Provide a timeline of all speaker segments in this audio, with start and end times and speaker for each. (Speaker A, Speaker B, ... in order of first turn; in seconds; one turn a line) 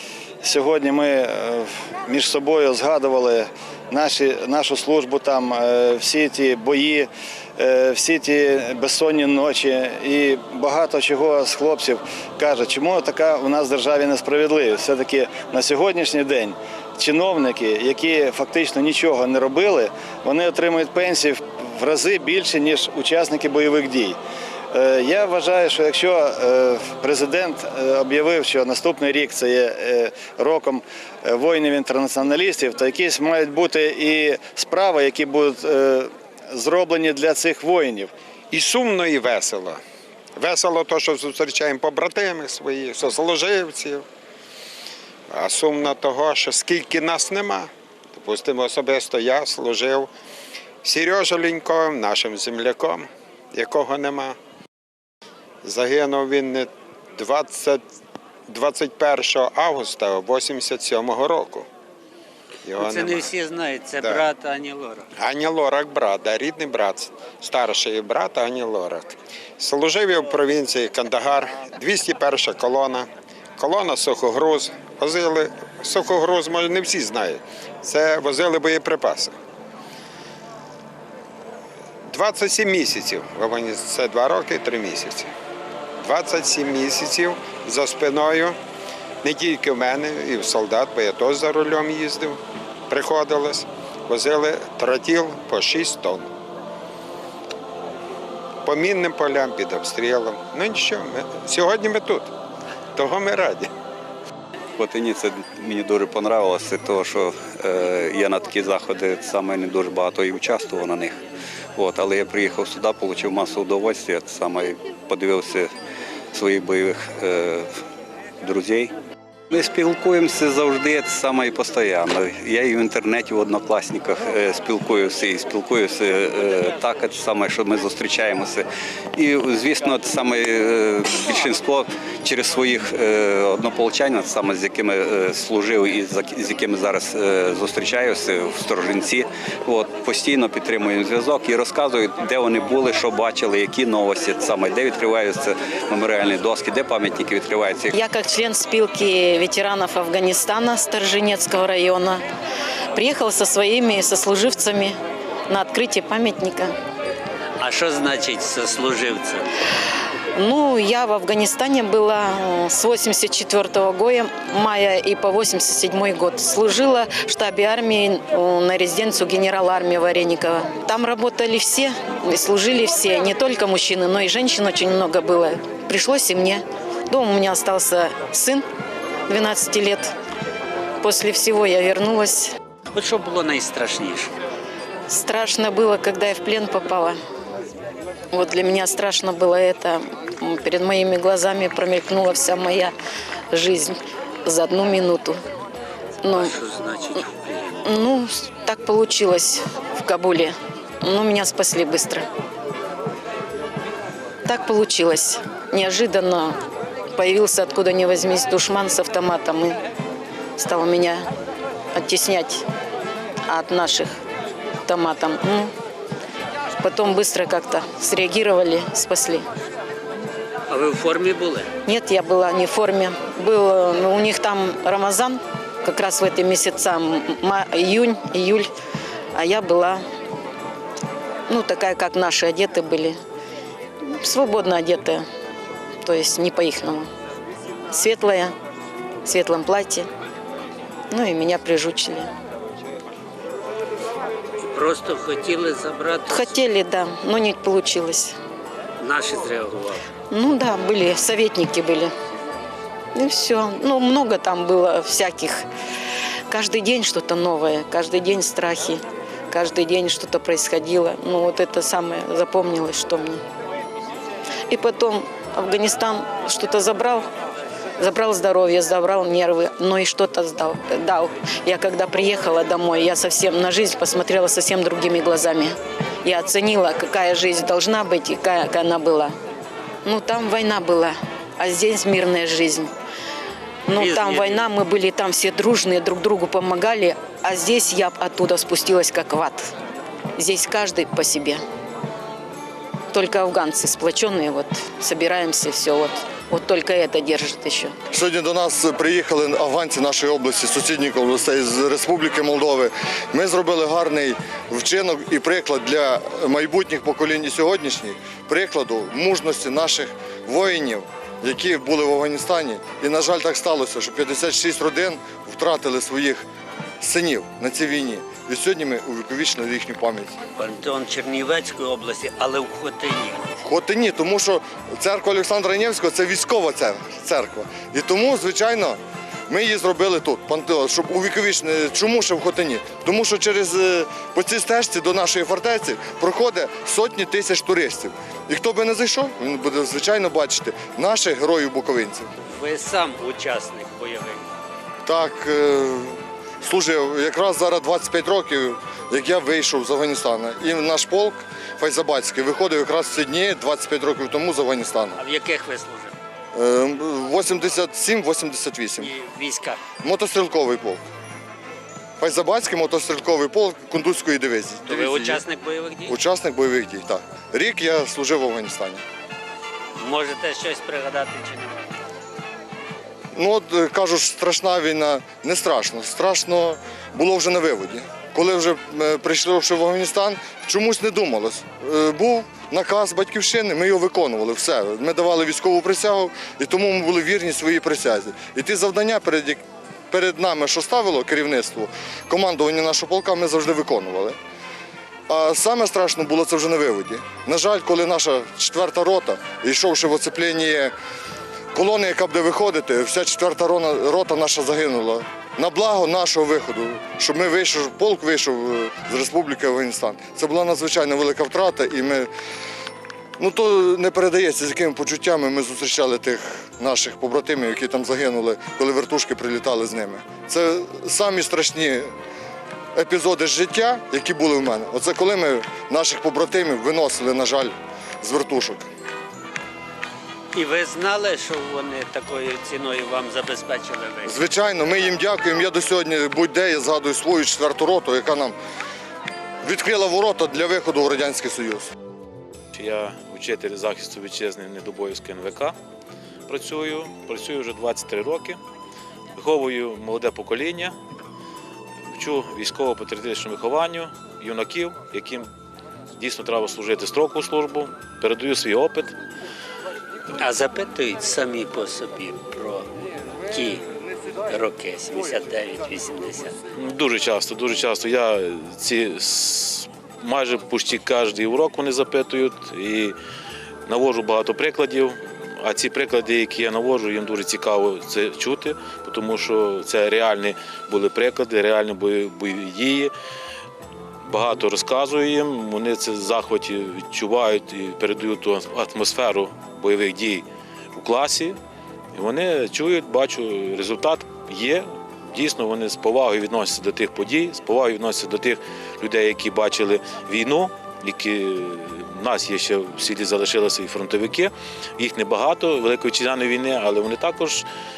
Speaker A: 0.4-24.2
Speaker A: 24.7-38.1
Speaker B: 38.5-39.8
Speaker B: 40.4-44.0
Speaker B: 45.3-50.1
Speaker B: 50.8-54.4
Speaker B: 55.6-57.8
Speaker B: 58.5-61.7
Speaker B: 62.7-63.3
Speaker C: 62.8-65.1
Speaker B: 65.2-79.3
Speaker B: 82.1-85.3
Speaker B: 86.0-88.6
Speaker B: 89.2-96.3
Speaker B: 98.6-102.3
Speaker B: 103.0-103.7
Speaker D: 104.8-111.2
Speaker D: 111.8-115.7
Speaker D: 116.3-117.7
Speaker D: 118.4-118.9
Speaker D: 119.5-128.6
Speaker D: 129.2-147.9
Speaker E: 147.9-152.2
Speaker E: 152.9-155.0
Speaker E: 155.5-156.7
Speaker C: 157.6-159.5
Speaker E: 160.4-178.6
Speaker E: 179.3-180.1
Speaker E: 181.0-182.5
Speaker C: 182.9-184.3
Speaker E: 185.1-187.2
Speaker E: 188.3-192.9
Speaker E: 193.5-195.4
Speaker E: 196.2-196.5
Speaker C: 196.3-197.9
Speaker E: 197.8-202.3
Speaker E: 204.5-206.6
Speaker E: 207.2-209.8
Speaker E: 210.6-211.2
Speaker E: 211.9-212.6
Speaker E: 213.5-214.2
Speaker E: 214.9-215.7
Speaker E: 216.8-219.4
Speaker C: 220.7-221.7
Speaker E: 221.9-228.7
Speaker E: 229.3-230.0
Speaker E: 231.5-233.2
Speaker E: 234.1-235.2
Speaker E: 236.0-237.1
Speaker E: 237.9-238.5
Speaker E: 239.2-240.1
Speaker E: 241.1-242.3
Speaker C: 244.6-246.6
Speaker E: 246.3-248.4
Speaker C: 249.0-250.0
Speaker E: 250.3-252.1
Speaker E: 253.2-255.7
Speaker E: 256.5-263.4
Speaker E: 264.7-267.3
Speaker E: 268.0-279.3
Speaker E: 280.1-282.9
Speaker E: 283.9-289.7
Speaker C: 283.9-284.7
Speaker E: 290.4-291.6
Speaker E: 293.1-297.9
Speaker F: 298.1-316.4
Speaker F: 317.0-320.4
Speaker C: 320.6-323.5
Speaker F: 323.6-329.0
Speaker F: 329.5-342.3
Speaker C: 342.4-344.4
Speaker F: 345.1-355.2
Speaker C: 355.1-356.1
Speaker F: 356.5-359.1
Speaker C: 359.0-359.8
Speaker F: 360.0-361.0
Speaker F: 362.2-365.4
Speaker C: 364.9-366.2
Speaker F: 366.1-369.0
Speaker C: 370.0-371.9
Speaker F: 373.4-394.4
Speaker F: 395.3-400.9
Speaker F: 401.7-412.3
Speaker F: 413.4-422.1
Speaker F: 423.0-428.9
Speaker C: 430.5-434.4
Speaker F: 434.2-438.6
Speaker F: 439.6-441.9
Speaker G: 442.7-445.8
Speaker G: 446.5-448.6
Speaker G: 449.4-450.9
Speaker G: 452.1-455.5
Speaker G: 456.2-459.1
Speaker C: 460.4-462.9
Speaker C: 463.5-463.8
Speaker C: 464.4-466.6
Speaker G: 466.8-473.1
Speaker G: 473.9-483.1
Speaker G: 484.3-491.6
Speaker G: 492.1-507.6